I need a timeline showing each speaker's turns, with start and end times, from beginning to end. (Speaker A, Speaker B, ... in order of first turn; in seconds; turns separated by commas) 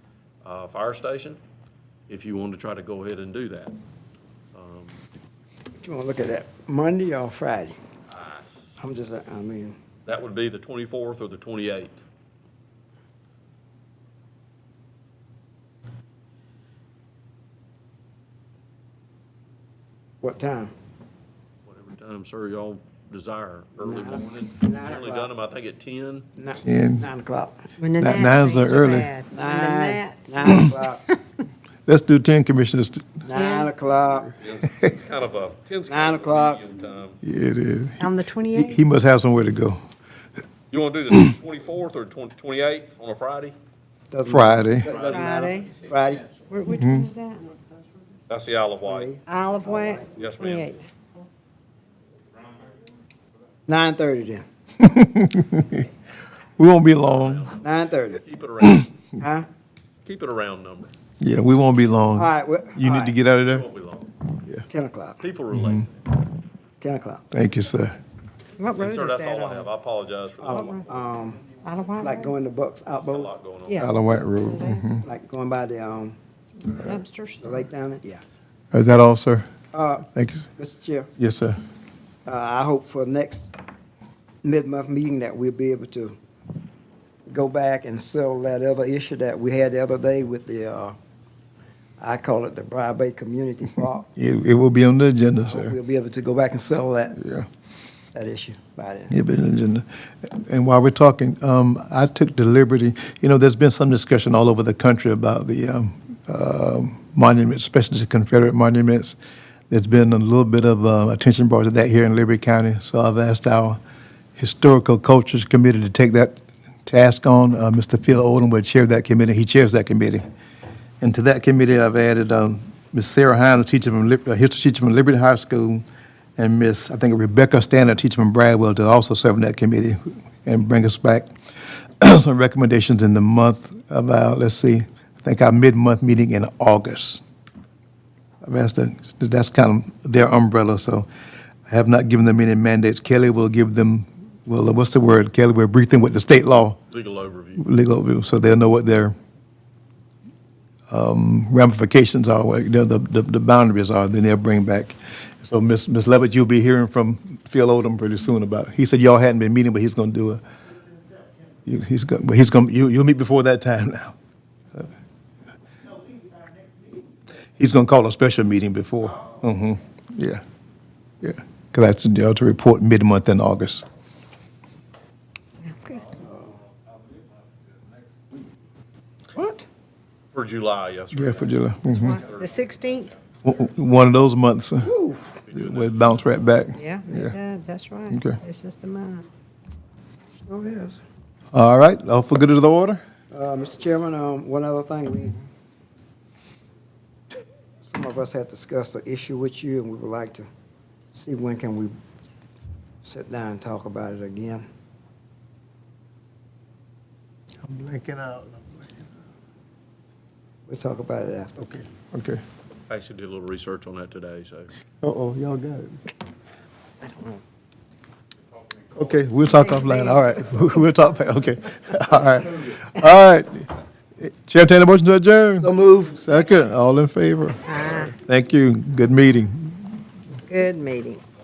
Speaker A: 0.4-1.4, Speaker A: 2.1-3.8, Speaker A: 4.5-5.0, Speaker B: 5.8-7.8, Speaker A: 8.1-8.9, Speaker B: 8.8-9.8, Speaker A: 10.1-12.1, Speaker B: 20.2-20.7, Speaker A: 21.7-26.3, Speaker B: 23.8-25.3, Speaker B: 26.4-27.7, Speaker C: 26.6-27.1, Speaker D: 27.8-31.2, Speaker C: 28.0-29.1, Speaker B: 29.3-31.0, Speaker C: 31.9-33.2, Speaker B: 33.2-34.3, Speaker D: 33.3-33.7, Speaker A: 34.4-37.2, Speaker B: 35.9-36.6, Speaker C: 37.2-39.8, Speaker D: 38.0-38.8, Speaker A: 40.7-43.6, Speaker B: 44.1-46.3, Speaker C: 44.2-45.0, Speaker D: 45.0-45.8, Speaker D: 46.5-47.4, Speaker C: 46.7-47.1, Speaker A: 48.3-49.1, Speaker B: 48.9-50.1, Speaker D: 49.3-50.8, Speaker A: 50.2-50.8, Speaker B: 53.7-54.5, Speaker C: 54.8-55.9, Speaker C: 56.6-57.5, Speaker A: 57.1-58.9, Speaker B: 57.6-58.2, Speaker B: 59.2-59.5, Speaker A: 60.0-60.9, Speaker C: 61.2-63.7, Speaker B: 62.2-63.2, Speaker A: 63.5-64.1, Speaker B: 64.7-65.2, Speaker A: 65.2-66.0, Speaker C: 65.5-65.8, Speaker B: 66.8-67.3, Speaker C: 67.3-68.0, Speaker D: 68.6-69.7, Speaker A: 68.8-71.0, Speaker B: 70.4-71.5, Speaker D: 71.6-72.3, Speaker B: 72.0-73.3, Speaker A: 73.1-73.9, Speaker D: 73.7-74.8, Speaker C: 73.8-75.0, Speaker B: 75.0-76.2, Speaker D: 76.7-77.7, Speaker B: 77.4-78.2, Speaker C: 78.7-79.5, Speaker B: 79.7-81.1, Speaker C: 80.1-80.5, Speaker C: 81.2-81.6, Speaker B: 82.3-83.5, Speaker B: 84.4-86.2, Speaker B: 87.3-91.0, Speaker B: 92.0-94.1, Speaker C: 94.2-95.8, Speaker B: 95.5-97.2, Speaker C: 97.2-97.5, Speaker B: 98.1-99.1, Speaker C: 99.1-109.2, Speaker C: 109.7-113.8, Speaker C: 114.4-120.2, Speaker C: 121.0-125.8, Speaker C: 126.4-131.3, Speaker C: 132.0-137.2, Speaker C: 138.4-141.1, Speaker C: 141.7-146.8, Speaker A: 146.9-147.7, Speaker C: 147.6-149.2, Speaker C: 150.9-160.4, Speaker C: 161.7-164.2, Speaker C: 167.6-170.4, Speaker C: 171.2-173.8, Speaker D: 175.6-176.1, Speaker B: 179.3-179.7, Speaker A: 180.3-182.5, Speaker C: 181.1-182.2, Speaker D: 181.9-183.1, Speaker C: 183.4-184.9, Speaker B: 184.8-185.4, Speaker A: 185.4-186.5, Speaker C: 185.5-187.3, Speaker D: 186.8-189.3, Speaker C: 188.1-188.4, Speaker B: 190.5-191.0, Speaker C: 191.5-193.0, Speaker B: 193.3-195.4, Speaker B: 197.8-200.5, Speaker B: 201.1-201.9, Speaker B: 203.0-204.7, Speaker C: 207.6-208.9, Speaker B: 210.7-211.6, Speaker C: 211.6-212.4, Speaker A: 212.9-214.7, Speaker C: 215.0-216.0, Speaker B: 217.0-217.4, Speaker C: 218.9-229.9, Speaker D: 219.7-220.6, Speaker B: 225.6-226.2, Speaker D: 227.7-228.1, Speaker D: 230.5-231.2